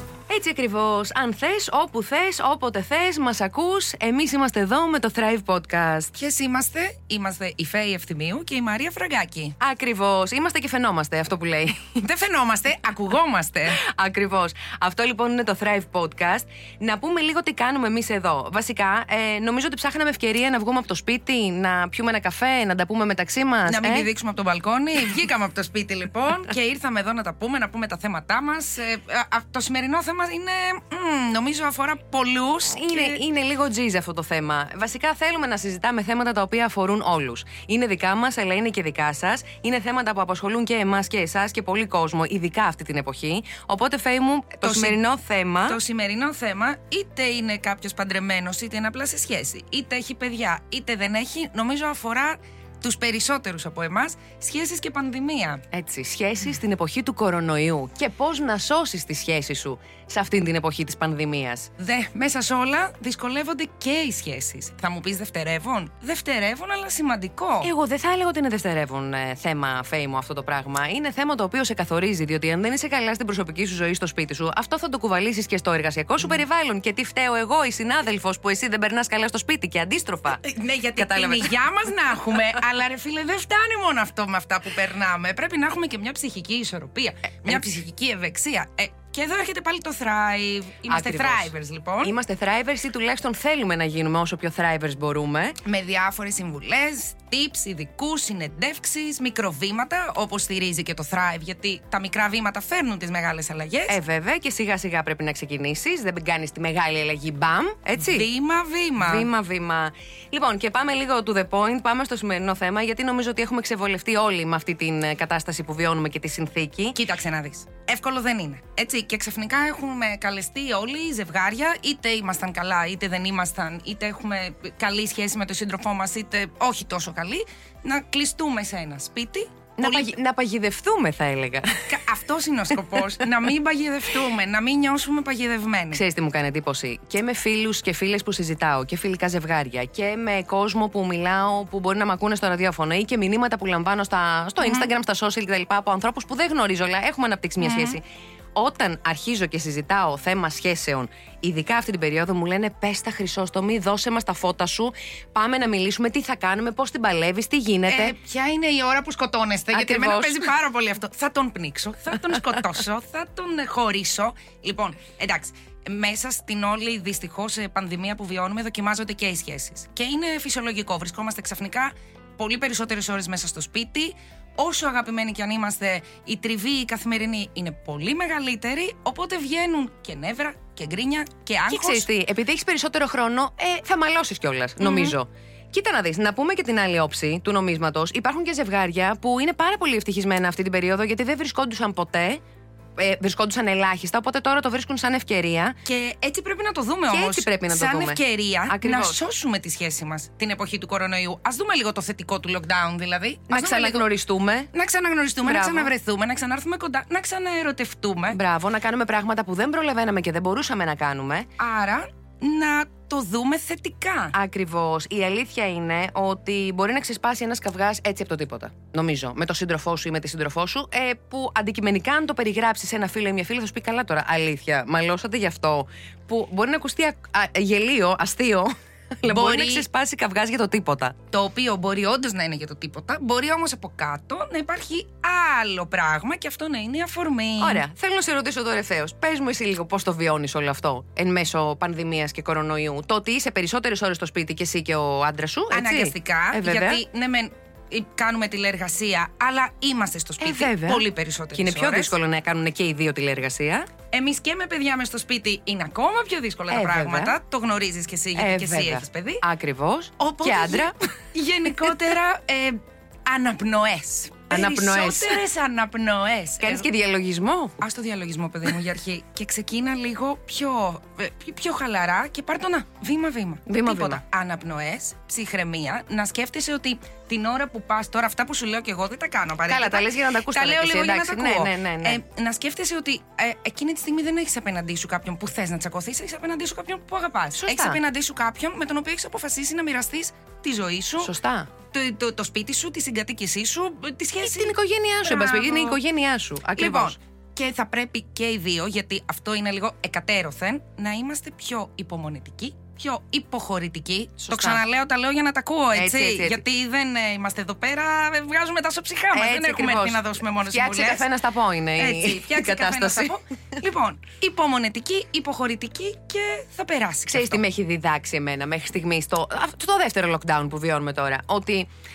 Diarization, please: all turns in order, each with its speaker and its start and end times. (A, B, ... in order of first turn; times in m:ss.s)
0:00.3-0:06.1 A
0:06.2-0:09.6 B
0:09.6-0:12.0 A
0:12.0-0:13.8 B
0:13.8-0:24.1 A
0:23.7-0:33.2 B
0:32.7-0:45.8 A
0:44.6-0:45.0 B
0:45.7-0:55.6 B
0:55.7-1:01.7 A
1:01.8-1:07.7 B
1:07.6-1:20.4 A
1:20.4-1:32.1 B
1:21.0-1:21.5 A
1:30.9-1:35.6 A
1:35.6-1:44.0 B
1:43.9-1:48.3 A
1:48.0-1:49.3 B
1:49.0-1:57.0 A
1:57.0-2:10.1 B
2:09.8-2:11.9 A
2:11.9-2:16.0 B
2:15.9-2:28.0 A
2:24.6-2:24.9 B
2:27.6-2:28.0 B
2:28.6-2:38.2 A
2:37.9-3:02.1 B
2:39.7-2:40.5 A
3:01.7-3:12.4 A
3:04.8-3:05.2 B
3:13.0-3:15.8 A
3:15.8-3:24.0 B
3:17.1-3:19.2 A
3:23.5-3:24.7 A
3:24.7-3:28.4 B
3:25.4-3:25.9 A
3:28.3-3:31.5 A
3:31.6-3:34.3 B
3:34.3-3:51.2 A
3:49.3-3:49.8 B
3:51.3-3:57.8 B
3:57.6-4:07.0 A
4:05.7-4:12.1 B
4:10.4-4:13.9 A
4:14.1-4:19.4 B
4:16.7-4:17.3 A
4:18.4-4:21.0 A
4:20.2-4:26.9 B
4:24.5-4:25.4 A
4:26.6-4:27.8 A
4:27.8-4:51.3 B
4:33.7-4:34.2 A
4:39.7-4:42.2 A
4:47.6-4:48.0 A
4:51.2-4:51.7 A
4:51.9-4:54.7 B
4:54.4-4:57.2 A
4:55.2-4:56.0 B
4:56.8-5:11.3 B
5:04.4-5:04.8 A
5:05.9-5:06.6 A
5:09.3-5:13.4 A
5:12.0-5:17.6 B
5:17.3-5:21.9 A